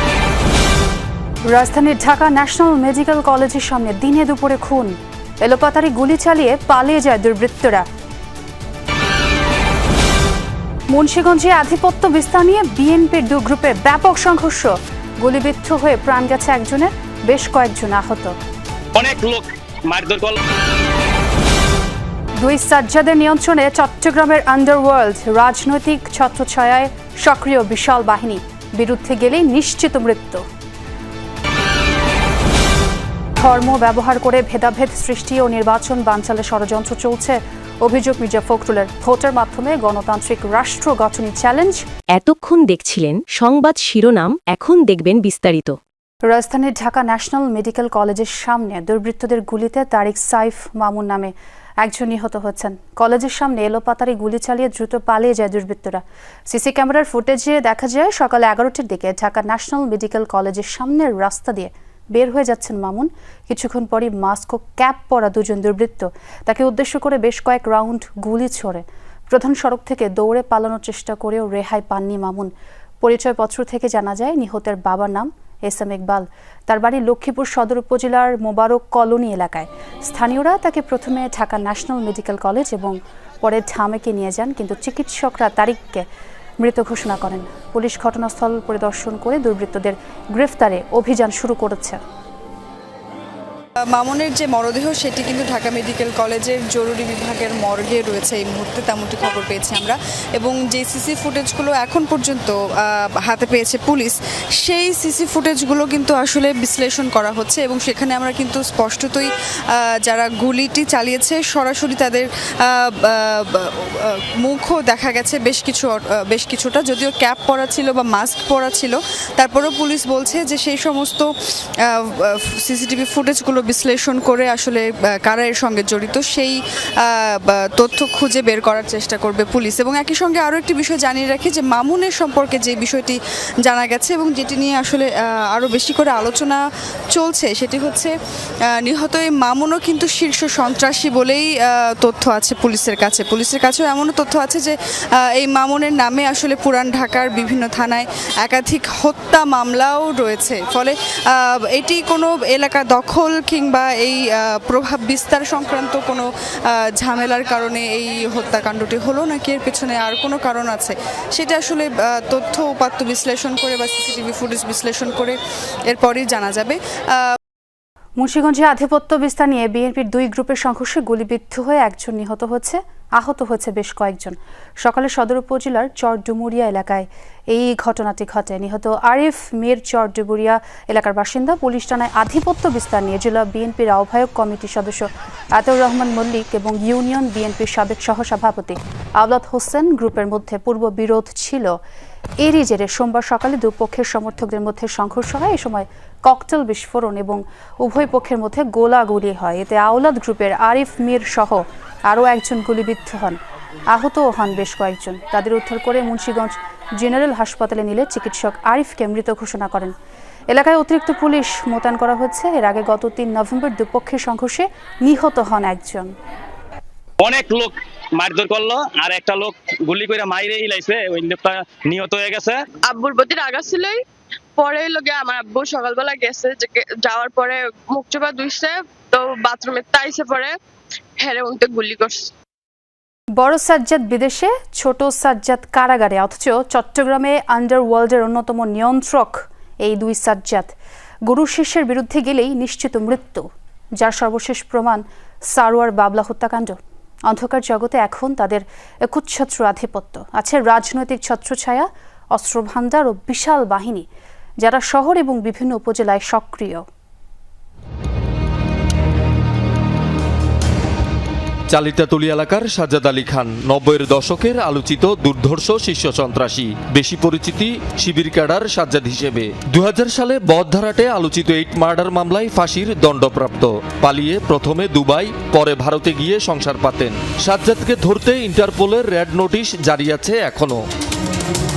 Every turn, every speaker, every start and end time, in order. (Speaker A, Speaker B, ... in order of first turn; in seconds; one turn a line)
Speaker A: 1.5-7.8
Speaker A: 10.9-18.3
Speaker B: 19.0-20.3
Speaker A: 22.4-30.4
Speaker A: 33.4-41.8
Speaker C: 42.2-45.8
Speaker A: 46.3-72.5
Speaker A: 73.0-86.0
Speaker A: 86.6-92.0
Speaker D: 93.8-167.4
Speaker A: 168.2-191.7
Speaker A: 192.4-203.4
Speaker A: 203.9-209.9
Speaker A: 210.5-216.1
Speaker B: 217.2-222.5
Speaker E: 222.8-224.0
Speaker E: 224.6-230.6
Speaker E: 231.2-232.3
Speaker A: 233.4-240.7
Speaker A: 241.2-243.4
Speaker A: 244.0-246.8
Speaker A: 247.3-254.1
Speaker A: 254.6-256.9
Speaker F: 261.7-280.8